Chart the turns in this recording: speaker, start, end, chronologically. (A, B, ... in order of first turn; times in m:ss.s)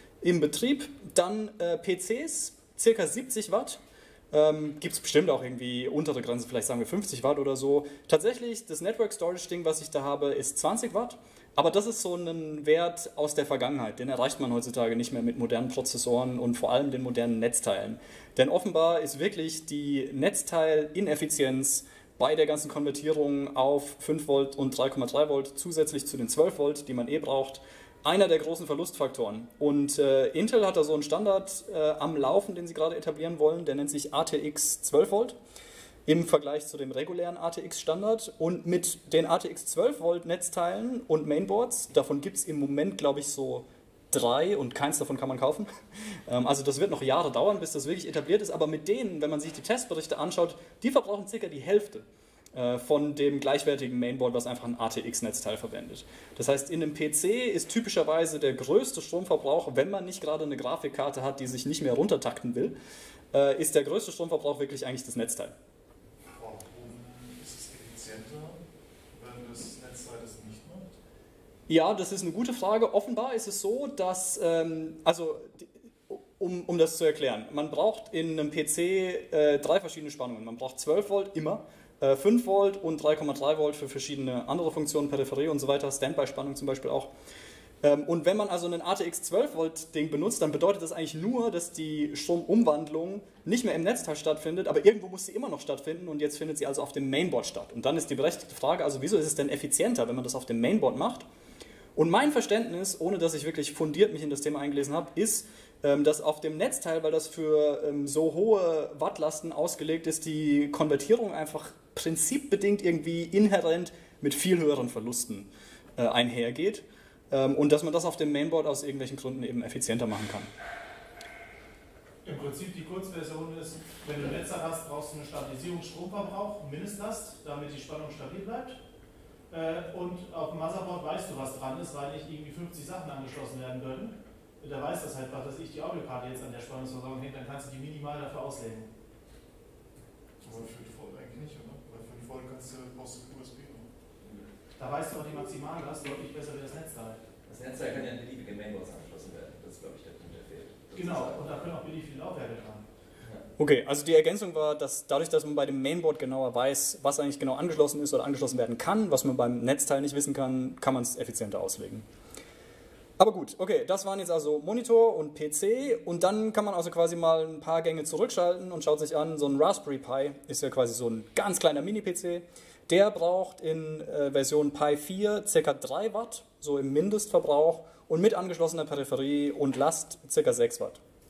0:00.2-0:03.8 A
0:04.3-0:35.4 A
0:36.1-0:45.7 A
0:46.3-1:02.8 A
1:03.3-1:05.5 A
1:06.3-1:11.0 B
1:11.7-1:27.1 A
1:27.8-1:41.3 A
1:42.0-2:00.5 A
2:02.2-2:08.8 C
2:09.5-2:18.9 C
2:20.4-2:23.9 B
2:24.2-2:24.5 D
2:24.8-2:27.2 C
2:27.5-2:31.7 D
2:31.0-2:32.9 C
2:33.6-2:42.0 A
2:43.2-3:01.0 A